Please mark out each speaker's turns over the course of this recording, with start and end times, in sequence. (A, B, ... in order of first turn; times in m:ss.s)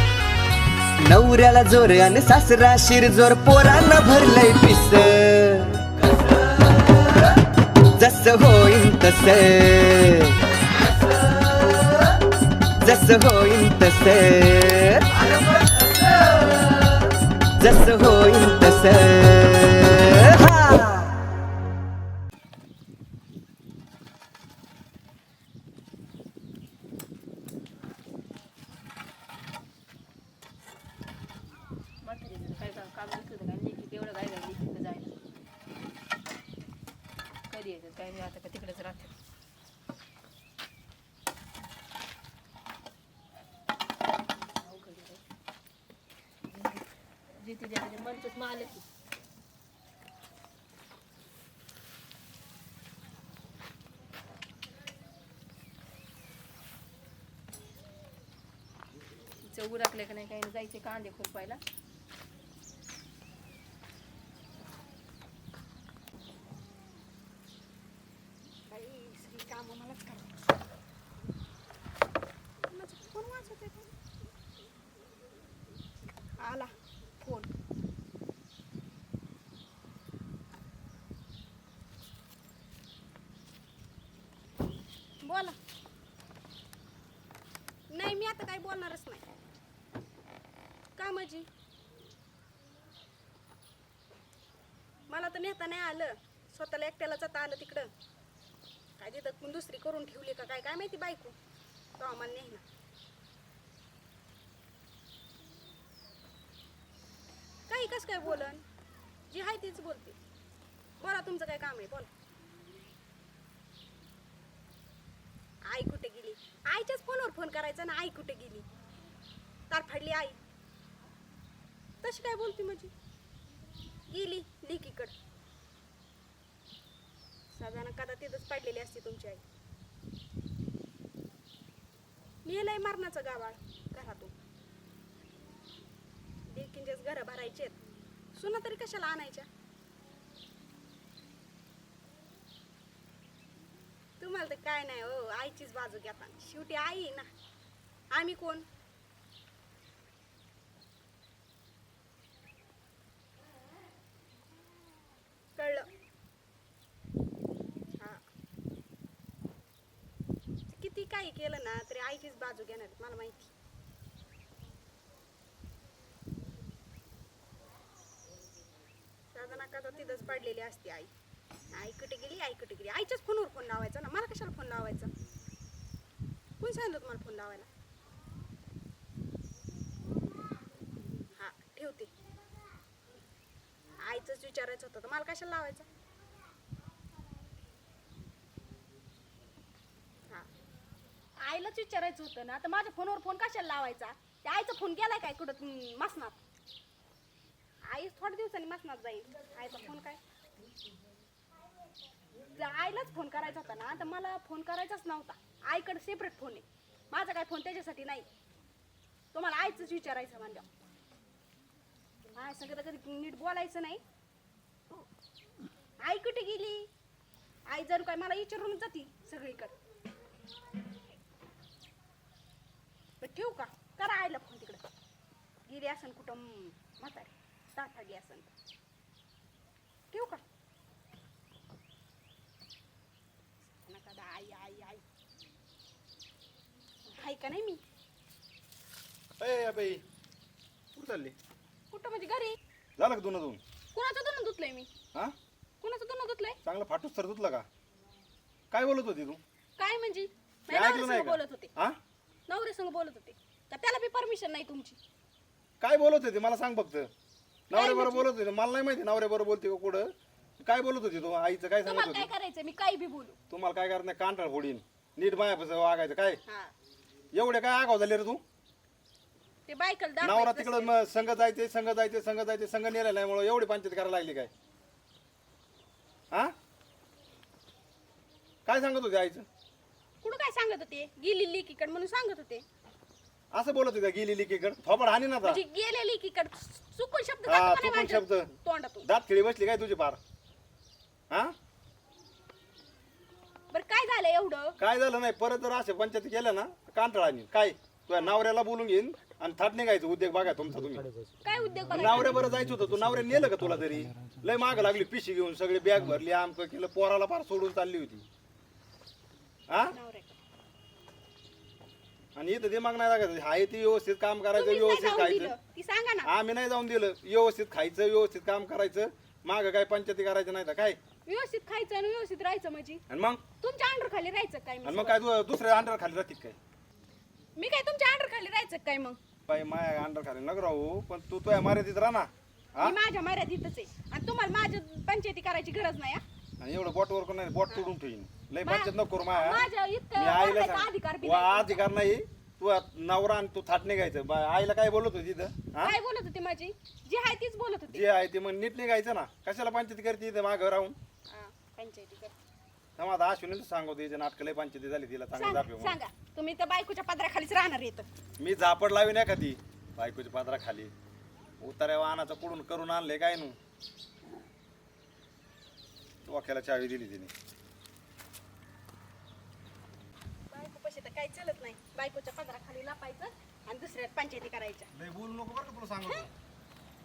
0:01.0-0:06.0 A
0:08.0-0:10.4 A
0:12.8-0:15.2 A
0:17.6-0:21.2 A
0:32.0-0:35.2 B
0:37.5-0:39.1 B
0:44.6-0:45.2 B
0:46.5-0:48.8 B
0:59.4-1:01.6 B
1:08.7-1:10.3 C
1:12.7-1:13.9 C
1:16.4-1:17.5 C
1:25.2-1:25.6 C
1:27.9-1:29.2 C
1:31.0-1:31.5 C
1:35.1-1:37.9 C
1:39.0-1:41.3 C
1:42.0-1:42.6 C
1:47.7-1:48.6 C
1:49.3-1:50.2 C
1:51.0-1:52.1 C
1:55.7-1:58.7 C
1:59.7-2:00.4 C
2:02.0-2:02.9 C
2:04.1-2:05.1 C
2:07.5-2:09.4 C
2:12.4-2:14.3 C
2:16.5-2:17.8 C
2:18.3-2:19.5 C
2:24.2-2:27.3 C
2:28.1-2:28.7 C
2:35.6-2:35.9 C
2:40.7-2:43.5 C
2:49.3-2:51.1 C
2:51.7-2:55.1 C
2:56.6-2:57.7 C
3:01.4-3:02.1 C
3:04.0-3:05.9 C
3:11.4-3:16.4 C
3:17.8-3:20.2 C
3:22.5-3:28.3 C
3:29.3-3:30.7 C
3:32.3-3:34.0 C
3:36.0-3:36.9 C
3:37.7-3:39.7 C
3:43.2-3:44.8 C
3:45.7-3:48.5 C
3:50.1-3:50.4 C
3:53.8-3:55.0 C
3:57.1-3:57.8 C
3:59.4-4:00.0 D
4:00.9-4:01.3 D
4:01.9-4:02.6 C
4:03.0-4:03.6 D
4:03.9-4:04.9 C
4:05.8-4:06.6 C
4:06.6-4:07.6 D
4:08.7-4:09.4 D
4:09.8-4:11.7 C
4:10.7-4:12.0 D
4:12.5-4:15.0 C
4:15.8-4:17.1 D
4:17.7-4:22.3 D
4:17.7-4:18.3 C
4:21.8-4:23.4 C
4:23.5-4:26.4 D
4:26.4-4:26.7 C
4:27.3-4:28.4 D
4:29.6-4:30.9 C
4:30.2-4:34.5 D
4:38.6-4:39.4 D
4:40.2-4:42.6 C
4:43.5-4:45.6 D
4:45.4-4:49.0 C
4:47.4-4:48.5 D
4:49.0-4:50.2 D
4:53.7-4:54.8 C
4:54.8-5:01.1 D
5:01.4-5:02.4 C
5:01.9-5:08.2 D
5:09.7-5:09.9 D
5:09.9-5:10.4 C
5:12.4-5:15.5 D
5:14.5-5:16.3 C
5:16.2-5:21.0 D
5:21.2-5:23.0 C
5:23.1-5:23.4 D
5:23.6-5:25.2 C
5:24.8-5:26.6 D
5:27.6-5:29.2 C
5:29.5-5:33.0 D
5:32.8-5:36.2 C
5:36.6-5:46.0 D
5:38.6-5:41.9 C
5:45.8-5:48.1 C
5:47.9-5:51.0 D
5:51.3-5:52.3 C
5:53.0-5:56.0 D
5:55.3-5:58.1 C
5:58.4-6:00.9 D
6:01.6-6:03.6 D
6:06.2-6:07.3 D
6:10.5-6:14.9 C
6:14.9-6:16.3 D